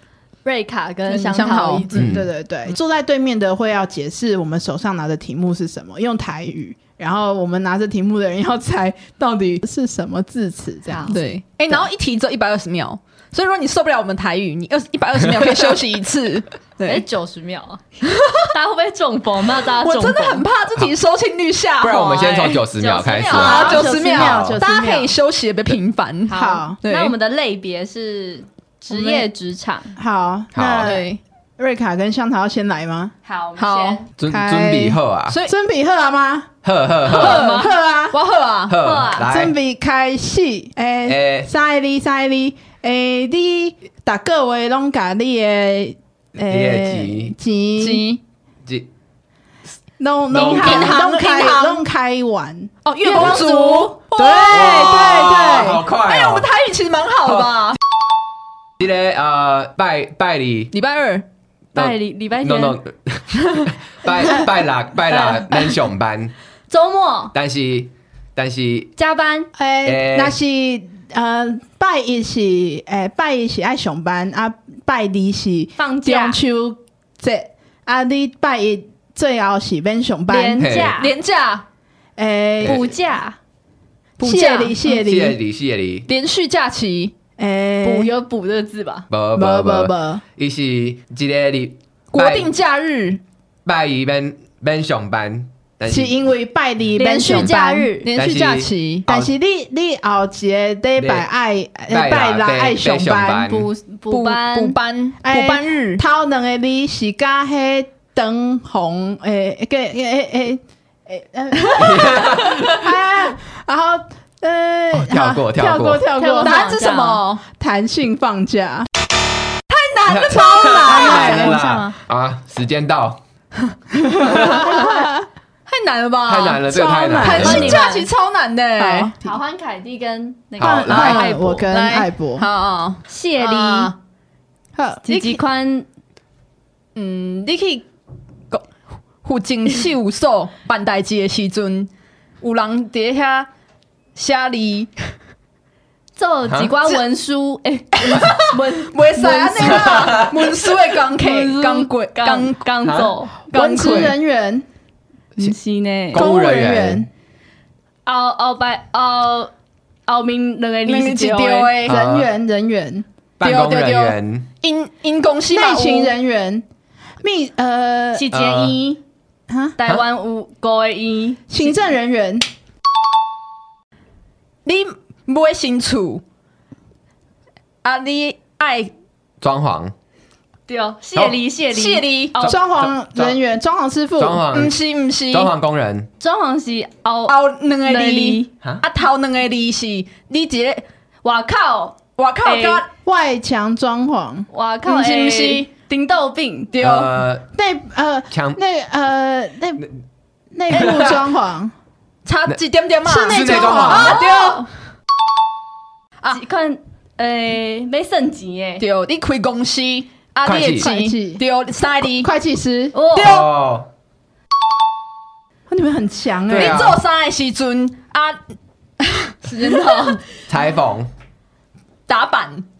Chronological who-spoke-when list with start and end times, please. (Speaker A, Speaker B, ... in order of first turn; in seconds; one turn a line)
Speaker A: 0.4-1.9
Speaker B: 1.1-2.1
Speaker C: 1.9-11.2
Speaker D: 1.9-2.3
Speaker A: 10.9-11.2
Speaker B: 11.1-17.0
Speaker A: 16.8-17.8
Speaker B: 18.1-18.4
Speaker A: 18.4-20.4
Speaker B: 19.8-22.6
Speaker D: 21.8-24.6
Speaker A: 22.7-23.9
Speaker C: 23.3-25.1
Speaker B: 23.3-27.1
Speaker A: 26.3-29.9
Speaker C: 26.3-26.8
Speaker C: 28.9-29.3
Speaker C: 29.9-33.1
Speaker D: 30.5-30.9
Speaker B: 30.8-31.2
Speaker A: 33.2-34.1
Speaker B: 33.6-34.0
Speaker D: 34.2-35.4
Speaker C: 34.3-36.5
Speaker B: 35.3-35.5
Speaker D: 36.6-37.4
Speaker B: 37.1-38.8
Speaker A: 37.1-37.7
Speaker C: 37.4-38.2
Speaker D: 38.7-39.5
Speaker A: 38.7-39.3
Speaker C: 39.2-48.1
Speaker D: 41.0-41.5
Speaker D: 46.5-47.3
Speaker B: 47.8-48.2
Speaker C: 50.0-55.8
Speaker D: 50.3-51.0
Speaker B: 50.4-51.8
Speaker B: 52.8-57.8
Speaker A: 53.1-53.5
Speaker D: 54.4-56.5
Speaker D: 58.8-60.7
Speaker B: 60.7-61.2
Speaker D: 61.7-66.3
Speaker A: 61.7-62.8
Speaker A: 65.1-65.7
Speaker A: 66.7-67.3
Speaker D: 67.3-68.9
Speaker A: 69.0-69.5
Speaker C: 69.5-80.9
Speaker D: 69.8-70.3
Speaker A: 75.8-76.4
Speaker A: 80.3-81.1
Speaker D: 80.6-81.0
Speaker B: 80.9-81.6
Speaker C: 82.2-82.9
Speaker A: 82.6-83.4
Speaker B: 84.2-84.8
Speaker C: 84.2-85.4
Speaker D: 84.9-86.1
Speaker B: 86.1-87.1
Speaker C: 87.4-88.1
Speaker A: 87.8-89.1
Speaker D: 89.1-92.5
Speaker C: 89.3-90.2
Speaker B: 92.1-93.2
Speaker D: 93.6-96.2
Speaker C: 95.9-97.9
Speaker A: 97.0-98.1
Speaker B: 97.0-99.0
Speaker D: 98.1-99.3
Speaker C: 99.0-103.5
Speaker D: 101.0-101.2
Speaker D: 101.9-103.7
Speaker A: 103.4-104.8
Speaker B: 104.1-106.0
Speaker C: 105.2-116.6
Speaker D: 111.7-112.8
Speaker D: 115.0-116.0
Speaker A: 116.2-117.2
Speaker B: 116.4-117.4
Speaker C: 117.6-118.9
Speaker B: 119.7-121.5
Speaker D: 120.1-123.2
Speaker C: 120.3-121.6
Speaker A: 120.9-121.9
Speaker C: 124.0-125.2
Speaker D: 124.2-124.7
Speaker B: 124.2-125.1
Speaker B: 125.7-126.6
Speaker D: 126.2-127.8
Speaker C: 126.6-127.8
Speaker B: 127.2-129.1
Speaker A: 127.4-128.1
Speaker C: 128.8-129.3
Speaker A: 129.2-131.7
Speaker C: 130.6-132.5
Speaker D: 130.6-131.2
Speaker B: 130.9-133.9
Speaker A: 133.1-133.9
Speaker C: 134.8-135.4
Speaker A: 135.0-135.8
Speaker B: 136.9-137.8
Speaker B: 139.2-141.9
Speaker B: 142.4-143.5
Speaker B: 144.2-144.9
Speaker A: 146.2-150.3
Speaker D: 146.5-146.8
Speaker B: 148.0-152.9
Speaker D: 149.6-150.3
Speaker A: 151.2-154.0
Speaker D: 152.8-153.1
Speaker B: 153.5-154.1
Speaker C: 153.5-154.6
Speaker A: 155.4-156.3
Speaker D: 156.1-157.1
Speaker C: 156.1-157.1
Speaker A: 158.1-159.5
Speaker A: 160.1-161.8
Speaker B: 160.8-162.0
Speaker C: 161.8-163.1
Speaker D: 161.8-162.3
Speaker D: 163.4-164.4
Speaker B: 163.4-166.1
Speaker C: 165.5-166.6
Speaker C: 167.2-168.3
Speaker A: 168.1-169.0
Speaker D: 168.3-168.8
Speaker C: 169.5-169.8
Speaker A: 169.8-171.8
Speaker C: 171.5-172.4
Speaker B: 174.6-176.2
Speaker B: 177.8-178.9
Speaker D: 179.4-179.9
Speaker A: 180.7-182.6
Speaker B: 181.7-182.3
Speaker D: 182.4-183.4
Speaker C: 182.4-184.4
Speaker D: 184.2-184.8
Speaker B: 184.5-185.5
Speaker D: 185.3-186.1
Speaker A: 186.2-188.5
Speaker B: 187.3-190.8
Speaker A: 191.2-192.8
Speaker B: 192.2-192.9
Speaker C: 193.0-194.5
Speaker A: 194.5-196.7
Speaker B: 194.8-195.7
Speaker B: 196.7-197.1
Speaker D: 196.8-197.4
Speaker C: 197.5-199.8
Speaker D: 198.3-198.6
Speaker C: 200.5-201.7
Speaker D: 200.7-201.2
Speaker B: 202.2-204.7
Speaker C: 203.0-204.3
Speaker D: 203.2-204.2
Speaker A: 204.2-204.6
Speaker A: 206.3-208.8
Speaker B: 208.8-212.3
Speaker D: 210.4-210.9
Speaker C: 210.7-211.4
Speaker C: 212.2-213.0
Speaker A: 212.9-213.4
Speaker B: 213.2-213.4
Speaker D: 213.2-213.9
Speaker C: 215.7-216.9
Speaker D: 216.5-217.0
Speaker B: 216.5-218.4
Speaker B: 219.0-220.2
Speaker A: 219.6-220.2
Speaker D: 220.5-221.1
Speaker B: 222.1-222.7